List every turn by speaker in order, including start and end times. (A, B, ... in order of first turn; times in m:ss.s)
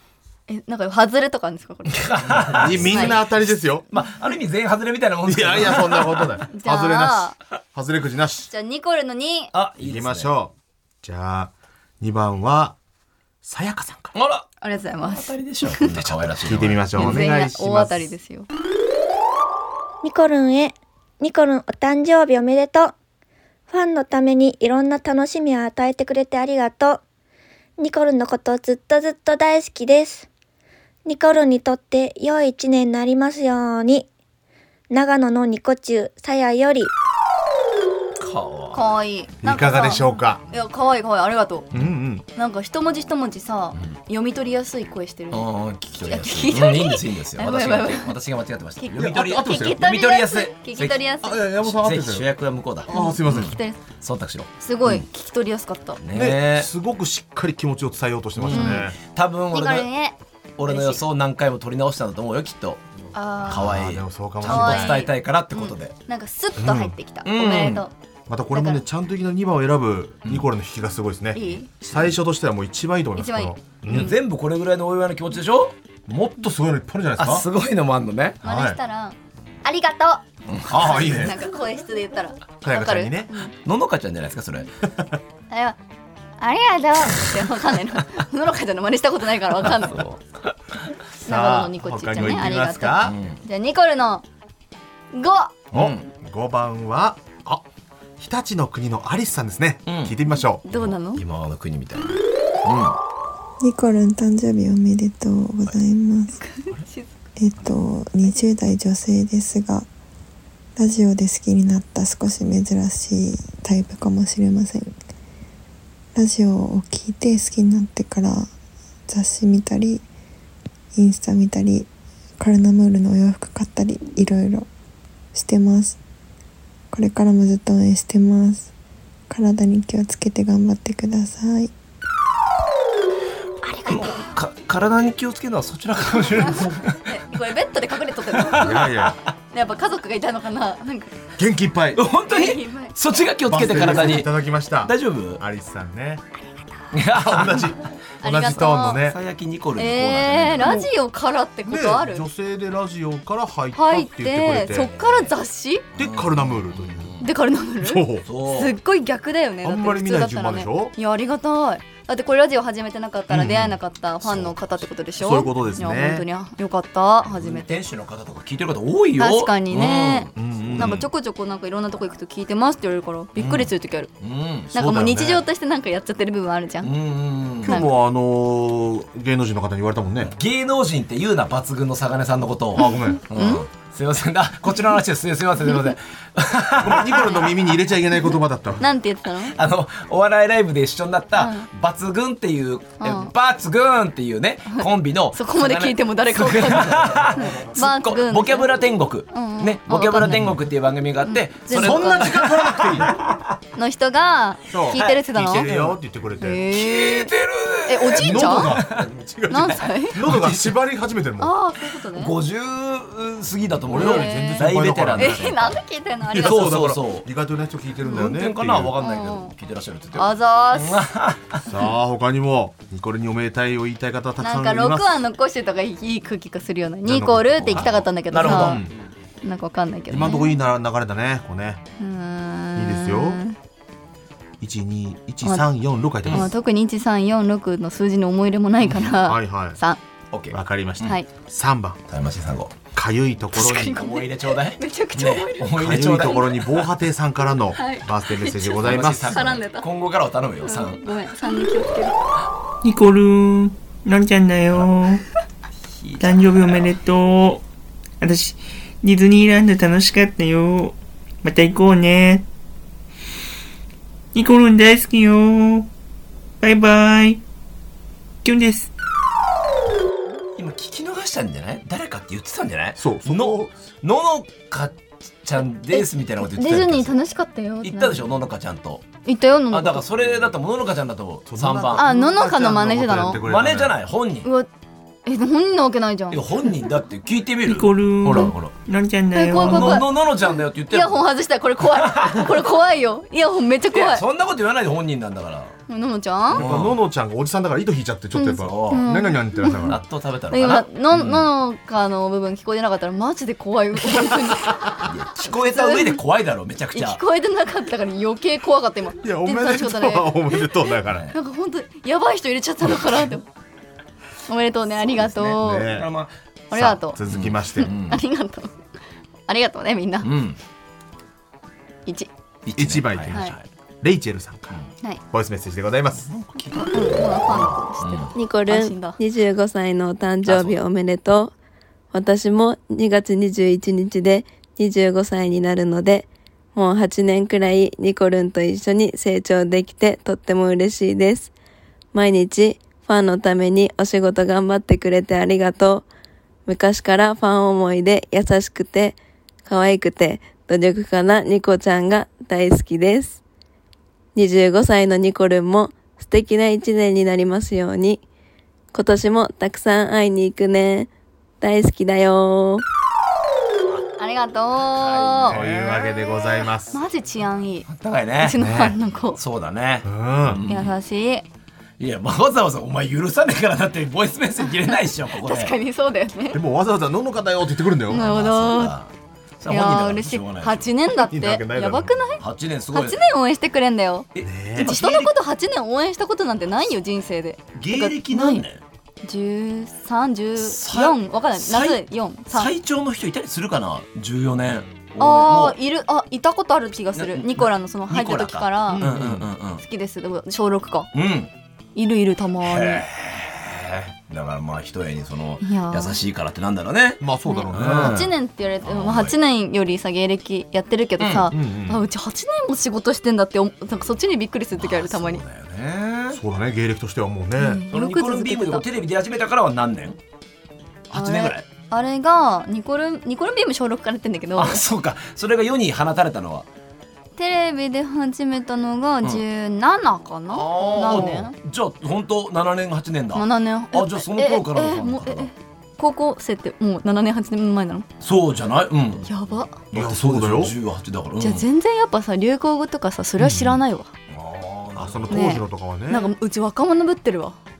0:00.5-0:03.2 A
0:01.9-0:03.3 B
0:02.5-0:03.9 C
0:03.9-0:06.4 B
0:05.2-0:08.5 C
0:06.5-0:07.4 A
0:08.5-0:09.5 A
0:09.5-0:10.3 B
0:09.8-0:12.8 C
0:13.4-0:14.1 C
0:14.1-0:14.5 B
0:14.6-0:15.9 A
0:15.0-0:17.2 B
0:16.4-0:18.1 C
0:16.9-0:18.5 A
0:20.0-0:22.9 D
0:23.7-0:27.0 D
0:27.8-0:30.3 D
0:31.0-0:34.1 D
0:34.9-0:36.9 D
0:38.2-0:38.8 B
0:38.7-0:41.7 A
0:39.4-0:40.4 C
0:41.7-0:42.2 C
0:42.3-0:45.4 A
0:45.3-0:55.0 B
0:46.0-0:48.1 A
0:48.8-0:51.4 A
0:49.0-0:49.9 C
0:51.2-0:52.3 C
0:52.9-0:53.6 C
0:52.9-0:53.8 A
0:54.6-0:56.0 A
0:56.0-0:56.7 B
0:56.1-0:59.0 C
0:58.4-0:59.9 B
0:58.5-0:58.9 A
0:59.5-1:01.0 A
1:00.6-1:02.9 B
1:03.1-1:03.7 A
1:03.4-1:05.0 C
1:03.4-1:05.9 B
1:04.4-1:07.9 A
1:06.6-1:06.9 C
1:07.2-1:07.8 B
1:08.3-1:14.1 C
1:08.5-1:08.8 A
1:11.3-1:11.7 A
1:13.2-1:14.1 A
1:13.9-1:15.7 B
1:16.1-1:17.5 C
1:17.2-1:18.4 B
1:18.4-1:18.8 C
1:18.4-1:20.2 A
1:20.5-1:21.3 B
1:20.7-1:21.3 C
1:20.7-1:23.5 A
1:22.6-1:23.3 C
1:23.6-1:24.7 B
1:25.5-1:25.8 A
1:26.4-1:30.0 A
1:29.6-1:30.2 B
1:31.2-1:33.2 C
1:31.2-1:34.2 A
1:33.0-1:33.4 B
1:35.1-1:35.6 A
1:35.7-1:36.0 B
1:35.7-1:37.6 C
1:38.2-1:40.6 C
1:39.8-1:40.2 B
1:40.6-1:41.2 A
1:40.7-1:43.0 B
1:43.6-1:46.4 E
1:46.3-1:47.1 A
1:47.4-1:49.9 E
1:50.8-1:55.0 E
1:56.1-1:58.5 E
1:59.1-2:00.0 E
2:00.9-2:04.7 E
2:05.3-2:06.0 E
2:06.9-2:08.7 E
2:09.3-2:11.7 E
2:13.6-2:14.2 A
2:13.8-2:17.0 B
2:16.3-2:18.9 A
2:18.4-2:19.2 B
2:18.5-2:19.2 C
2:19.5-2:21.2 A
2:21.4-2:22.0 C
2:21.9-2:25.4 B
2:22.1-2:22.9 A
2:23.5-2:26.2 C
2:26.9-2:27.8 B
2:27.1-2:29.2 C
2:28.2-2:29.0 A
2:29.0-2:30.8 B
2:29.8-2:32.2 A
2:30.6-2:30.9 C
2:31.6-2:34.9 C
2:33.7-2:35.8 A
2:34.7-2:35.3 B
2:36.0-2:37.2 C
2:36.0-2:37.3 B
2:37.2-2:47.8 A
2:37.8-2:38.2 C
2:38.2-2:38.8 B
2:39.6-2:40.9 C
2:43.3-2:43.6 C
2:44.3-2:44.7 B
2:45.2-2:46.2 C
2:47.2-2:51.1 B
2:49.2-2:54.1 A
2:50.4-2:51.0 C
2:53.4-2:53.7 B
2:54.2-2:54.7 B
2:54.7-2:55.4 C
2:54.7-2:56.9 A
2:56.8-2:57.8 B
2:57.6-3:00.3 C
3:00.2-3:07.6 B
3:02.8-3:03.2 C
3:02.8-3:03.7 A
3:05.7-3:05.9 A
3:06.8-3:08.8 C
3:07.1-3:07.5 A
3:08.8-3:09.6 A
3:09.5-3:23.5 B
3:11.4-3:11.7 A
3:13.0-3:13.3 A
3:14.7-3:18.7 A
3:19.3-3:20.4 A
3:20.3-3:20.6 C
3:21.2-3:22.5 A
3:21.7-3:23.2 C
3:23.7-3:25.7 A
3:24.7-3:26.6 C
3:24.9-3:26.0 B
3:26.4-3:27.3 A
3:26.7-3:29.1 B
3:27.9-3:28.7 A
3:28.2-3:31.5 C
3:29.5-3:30.2 A
3:30.1-3:30.7 B
3:31.4-3:32.3 A
3:32.1-3:35.8 B
3:33.9-3:35.5 C
3:33.9-3:36.8 A
3:36.2-3:38.9 C
3:36.4-3:37.3 B
3:38.0-3:38.3 A
3:38.1-3:41.6 B
3:39.0-3:39.5 A
3:40.1-3:41.0 A
3:41.6-3:45.2 C
3:44.4-3:48.8 A
3:47.0-3:48.9 C
3:47.6-3:49.0 B
3:49.4-3:50.5 A
3:50.1-3:51.8 C
3:52.0-3:53.6 A
3:52.8-3:53.4 C
3:54.6-3:56.5 C
3:55.4-3:55.7 A
3:56.3-4:00.0 A
3:59.2-3:59.8 C
4:00.3-4:01.2 B
4:00.5-4:02.0 C
4:02.1-4:02.8 B
4:02.9-4:04.0 C
4:03.5-4:06.9 B
4:03.6-4:06.5 A
4:05.7-4:09.5 C
4:07.8-4:09.9 A
4:08.8-4:11.4 B
4:10.6-4:12.2 A
4:12.8-4:15.2 F
4:15.9-4:17.0 B
4:16.2-4:17.6 F
4:18.2-4:22.4 F
4:24.3-4:25.9 F
4:26.6-4:27.4 F
4:28.4-4:28.9 F
4:30.6-4:37.1 B
4:33.0-4:33.7 C
4:35.9-4:38.2 A
4:37.8-4:39.0 B
4:39.2-4:40.0 A
4:39.7-4:42.0 B
4:41.5-4:43.9 C
4:42.0-4:43.4 A
4:43.2-4:44.5 B
4:45.2-4:46.7 A
4:46.3-4:48.7 B
4:47.6-4:50.0 F
4:49.3-4:54.2 A
4:49.5-4:51.3 B
4:51.8-4:52.5 B
4:53.9-4:55.7 B
4:55.9-4:56.6 A
4:56.5-4:57.0 B
4:56.5-5:00.0 C
4:58.3-5:00.0 A
4:58.6-4:59.1 B
4:59.8-5:01.5 B
5:00.5-5:06.2 A
5:05.0-5:07.2 B
5:06.9-5:10.8 A
5:09.2-5:11.3 C
5:11.3-5:13.4 A
5:14.5-5:15.9 A
5:15.2-5:16.3 B
5:15.6-5:16.1 C
5:16.7-5:17.2 A
5:16.7-5:17.9 C
5:17.3-5:18.2 B
5:17.7-5:18.8 A
5:19.5-5:20.3 A
5:20.2-5:20.6 B
5:22.6-5:23.6 B
5:22.8-5:23.5 C
5:23.3-5:23.6 A
5:24.0-5:26.3 C
5:26.2-5:28.3 B
5:26.7-5:29.2 A
5:28.3-5:31.5 G
5:30.4-5:30.8 B
5:32.1-5:41.5 G
5:42.1-5:46.0 G
5:46.6-5:53.4 G
5:54.3-5:58.2 G
5:58.9-6:01.1 G
6:01.6-6:02.8 G
6:04.2-6:05.6 A
6:04.8-6:06.3 B
6:05.5-6:07.0 C
6:06.9-6:07.9 A
6:07.8-6:08.6 B
6:08.4-6:09.4 A
6:08.5-6:09.0 C
6:09.3-6:10.9 B
6:10.0-6:10.6 C
6:10.7-6:11.4 A
6:12.0-6:15.7 B
6:14.6-6:16.6 A
6:16.5-6:18.4 C
6:18.1-6:18.9 A
6:18.1-6:21.0 B
6:19.7-6:22.4 A
6:21.3-6:22.2 C
6:22.4-6:23.2 B
6:22.9-6:24.3 A
6:24.3-6:25.3 B
6:24.4-6:24.9 C
6:24.8-6:28.6 A
6:27.7-6:28.8 B
6:29.2-6:32.7 A
6:30.6-6:35.8 B
6:35.2-6:39.1 A
6:37.1-6:39.8 B
6:38.9-6:39.5 C
6:39.8-6:41.1 A
6:41.1-6:41.5 B
6:42.0-6:43.0 A
6:42.6-6:47.2 B
6:45.6-6:46.2 A
6:47.2-6:48.3 C
6:47.4-6:55.4 A
6:47.7-6:48.3 B
6:48.8-6:49.4 B
6:51.2-6:51.5 B
6:51.5-6:52.0 C
6:54.7-6:56.4 B
6:56.3-6:57.8 C
6:57.6-6:58.8 A
6:57.9-7:00.2 B
7:01.1-7:01.6 B
7:01.1-7:04.8 A
7:04.6-7:06.7 B
7:07.4-7:11.5 A
7:10.5-7:15.5 B
7:11.1-7:11.4 C
7:13.3-7:18.1 A
7:18.2-7:21.6 B
7:19.3-7:19.8 A
7:19.9-7:20.7 C
7:21.4-7:24.1 A
7:23.4-7:23.8 C
7:24.3-7:25.5 B
7:25.0-7:26.3 C
7:25.3-7:27.6 A